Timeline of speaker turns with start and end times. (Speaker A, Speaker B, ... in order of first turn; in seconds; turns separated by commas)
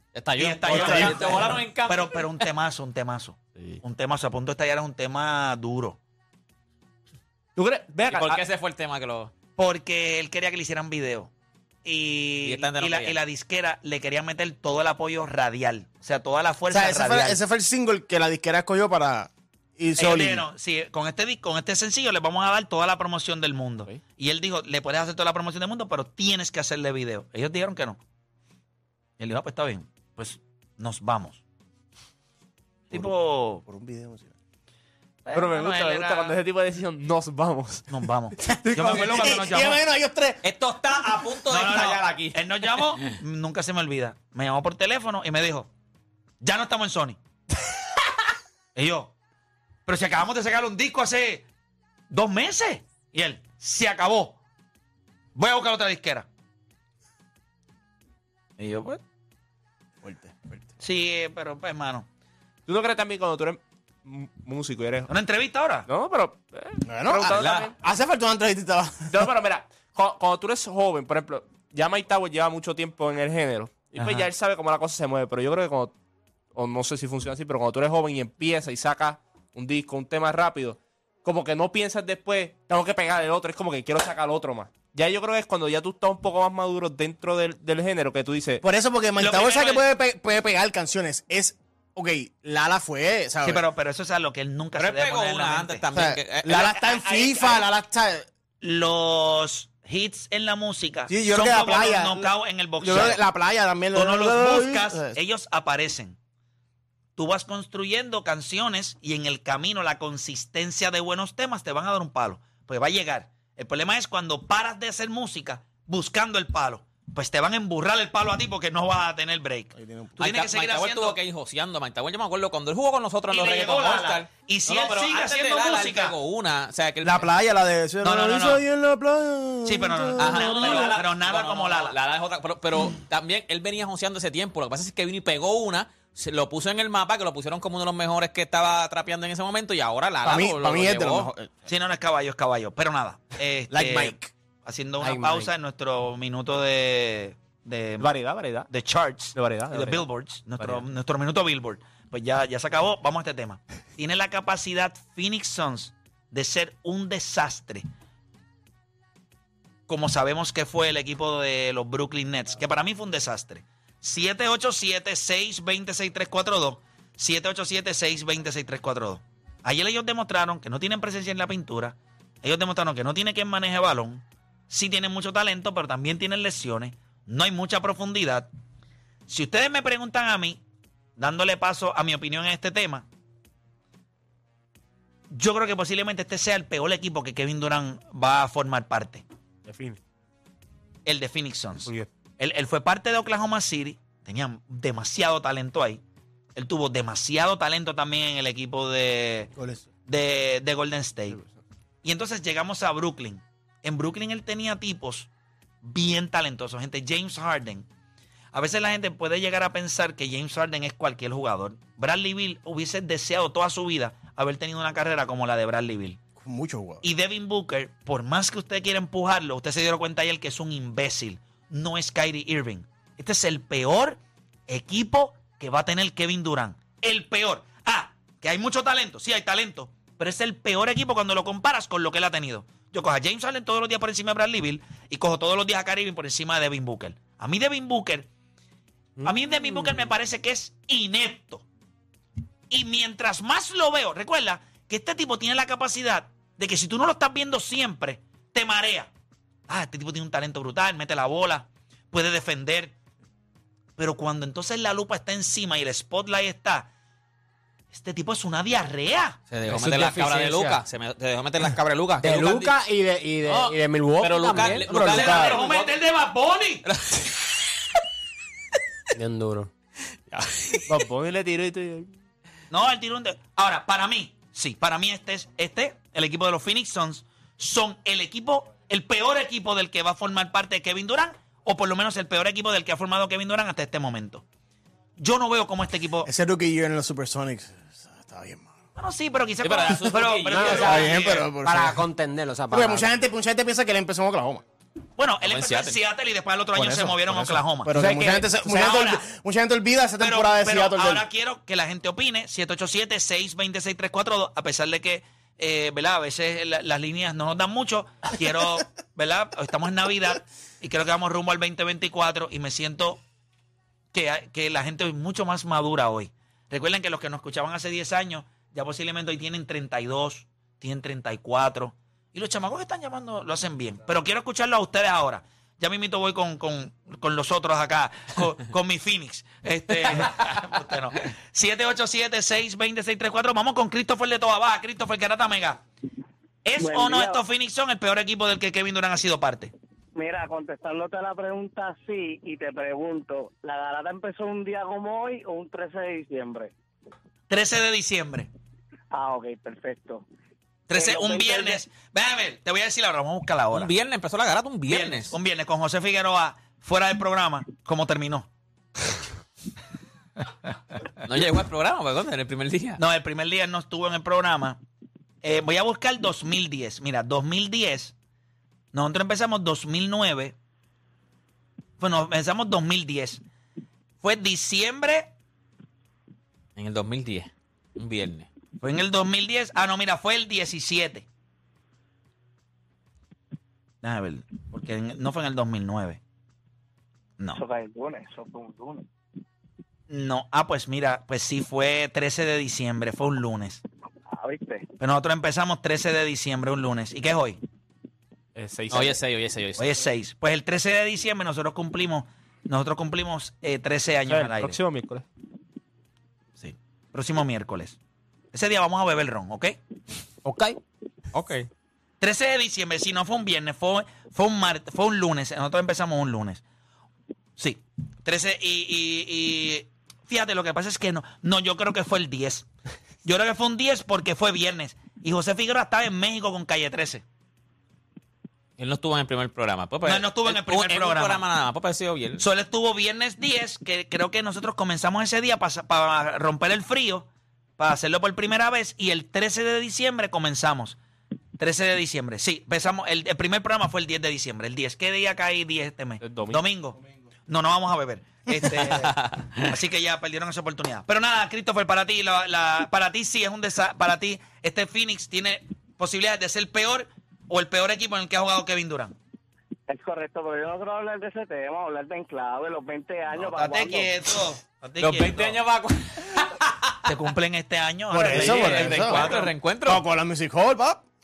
Speaker A: 0.1-2.5, Speaker B: 0.4-6.0, Speaker C: 0.7-1.2, Speaker D: 7.6-8.4, Speaker A: 8.1-9.3, Speaker B: 9.6-11.3, Speaker B: 11.8-17.4, Speaker A: 12.4-13.2, Speaker C: 16.7-20.5, Speaker B: 20.0-28.0, Speaker B: 29.2-31.4, Speaker B: 32.9-33.6, Speaker C: 33.7-34.3, Speaker B: 35.2-36.4, Speaker D: 35.3-39.4, Speaker B: 37.9-39.8, Speaker C: 38.7-40.4, Speaker A: 40.4-43.0, Speaker B: 41.5-45.7, Speaker B: 46.4-47.2, Speaker B: 48.8-49.1, Speaker B: 49.9-51.5, Speaker B: 52.1-54.4, Speaker B: 55.4-56.3, Speaker B: 58.6-59.0, Speaker C: 60.0-60.7, Speaker B: 60.8-62.1, Speaker D: 62.7-65.1, Speaker B: 65.1-65.9, Speaker D: 65.9-67.7, Speaker C: 66.9-69.3, Speaker A: 67.3-67.7, Speaker D: 69.1-75.9, Speaker B: 74.0-74.3, Speaker D: 76.5-88.6, Speaker C: 88.6-93.6, Speaker B: 89.2-89.8, Speaker B: 93.4-95.8, Speaker A: 94.8-96.8, Speaker C: 95.9-98.3, Speaker B: 96.8-97.6, Speaker B: 98.6-103.2, Speaker C: 101.1-105.2, Speaker B: 103.9-106.2, Speaker B: 107.2-121.2, Speaker C: 119.8-120.2, Speaker A: 120.2-127.3, Speaker B: 123.3-126.2, Speaker C: 127.0-131.0, Speaker B: 128.0-128.6, Speaker B: 129.7-132.0, Speaker A: 130.2-141.3, Speaker C: 140.2-141.5, Speaker B: 141.7-148.1, Speaker C: 143.7-144.3, Speaker E: 145.0-145.5, Speaker D: 148.0-148.7, Speaker B: 148.7-157.9, Speaker D: 149.3-150.1, Speaker D: 150.6-150.8, Speaker B: 159.9-178.5, Speaker B: 179.3-180.6, Speaker B: 181.2-183.1, Speaker B: 185.3-189.2, Speaker D: 189.7-190.0, Speaker B: 191.1-196.0, Speaker B: 196.6-199.5, Speaker B: 200.1-201.4, Speaker D: 201.3-201.6, Speaker B: 202.0-205.3, Speaker B: 205.8-207.9, Speaker B: 208.5-216.2, Speaker C: 216.4-217.0, Speaker B: 217.0-238.3, Speaker E: 239.2-239.9, Speaker B: 239.2-241.7, Speaker B: 242.7-249.1, Speaker B: 249.7-252.9, Speaker B: 254.0-256.9, Speaker B: 257.9-259.4, Speaker A: 259.5-262.8, Speaker E: 259.7-260.8, Speaker E: 262.2-265.1, Speaker A: 263.4-265.9, Speaker C: 264.9-265.6, Speaker B: 265.0-266.9, Speaker A: 266.9-267.6, Speaker E: 269.1-269.7, Speaker A: 270.3-271.0, Speaker D: 270.9-272.1, Speaker B: 272.7-284.4, Speaker B: 285.2-286.3, Speaker C: 286.2-288.7, Speaker B: 289.0-291.5, Speaker A: 289.6-291.2, Speaker E: 290.5-290.9, Speaker C: 290.6-292.0, Speaker E: 291.6-293.1, Speaker C: 292.7-294.6, Speaker B: 295.2-299.2, Speaker A: 295.4-296.0, Speaker C: 296.8-301.2, Speaker B: 300.2-313.2, Speaker B: 314.1-335.8, Speaker B: 336.6-339.7, Speaker F: 336.8-337.4, Speaker F: 340.1-346.7, Speaker B: 347.5-348.5, Speaker F: 349.1-350.2, Speaker B: 350.9-353.9, Speaker F: 350.9-351.9, Speaker A: 353.7-355.4, Speaker B: 354.9-358.5, Speaker A: 361.2-363.0, Speaker B: 363.0-364.8, Speaker B: 365.4-368.1, Speaker B: 368.9-370.6, Speaker B: 372.0-373.4, Speaker B: 374.2-375.3, Speaker A: 376.8-378.5, Speaker B: 378.8-381.3, Speaker B: 384.0-386.2, Speaker F: 387.5-389.1, Speaker B: 390.1-393.8, Speaker F: 394.3-394.9, Speaker B: 395.0-397.6, Speaker D: 398.6-399.2, Speaker A: 398.9-399.9, Speaker B: 399.8-404.8, Speaker D: 404.3-405.2, Speaker B: 406.6-408.0, Speaker B: 408.5-409.8, Speaker B: 412.2-416.6, Speaker B: 417.6-422.7, Speaker B: 423.2-427.2, Speaker A: 428.8-432.4, Speaker B: 430.0-431.4, Speaker B: 432.4-437.3, Speaker B: 437.8-441.0, Speaker B: 441.6-459.1, Speaker D: 446.2-446.6, Speaker A: 448.5-449.7, Speaker F: 459.9-464.1, Speaker B: 463.3-465.6, Speaker A: 465.0-467.0, Speaker B: 467.1-469.5, Speaker C: 468.1-469.3, Speaker A: 468.2-470.0, Speaker C: 469.9-471.0